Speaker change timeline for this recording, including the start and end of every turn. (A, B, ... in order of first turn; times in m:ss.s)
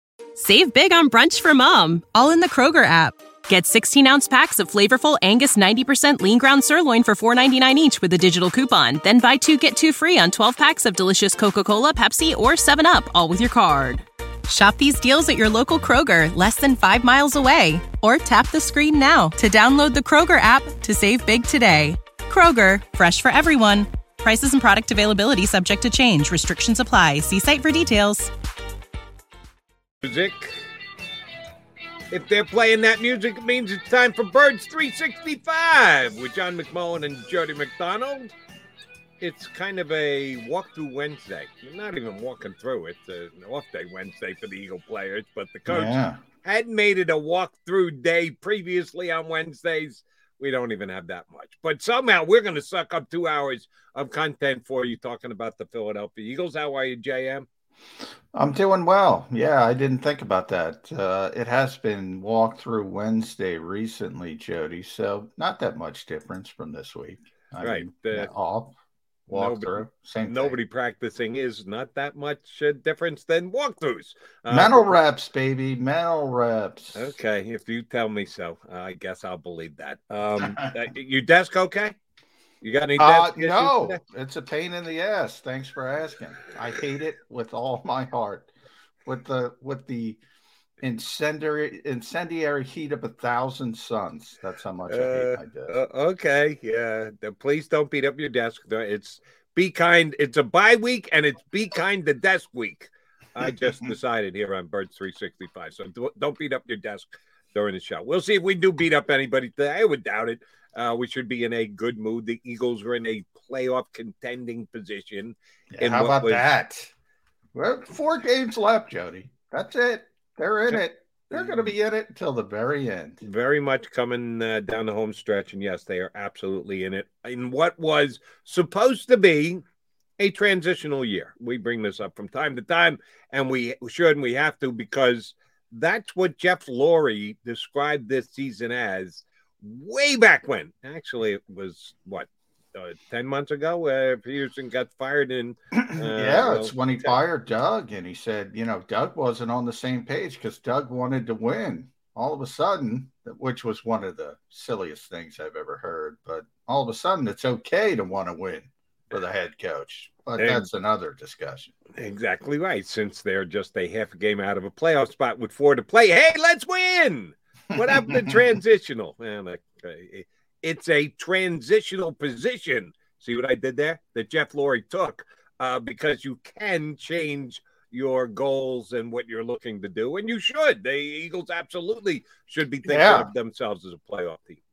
0:00.4-0:28.3 A
0:30.0-0:30.6 B
0:32.1-0:38.3 B
0:39.2-0:57.4 B
0:45.7-0:46.2 C
0:58.3-1:08.8 C
1:07.6-1:08.3 B
1:09.3-1:10.6 C
1:09.3-1:14.9 B
1:14.5-1:17.1 C
1:16.9-1:21.9 B
1:20.4-1:20.7 C
1:22.6-1:24.0 B
1:23.0-1:28.5 C
1:29.0-1:30.2 C
1:30.8-1:35.8 C
1:34.9-1:56.5 B
1:55.7-1:56.9 C
1:57.5-2:03.2 C
2:00.7-2:01.7 B
2:03.2-2:09.6 B
2:10.2-2:27.1 B
2:25.7-2:41.7 C
2:40.4-2:40.7 B
2:42.0-3:04.6 B
2:47.9-2:48.4 C
3:02.8-3:03.3 C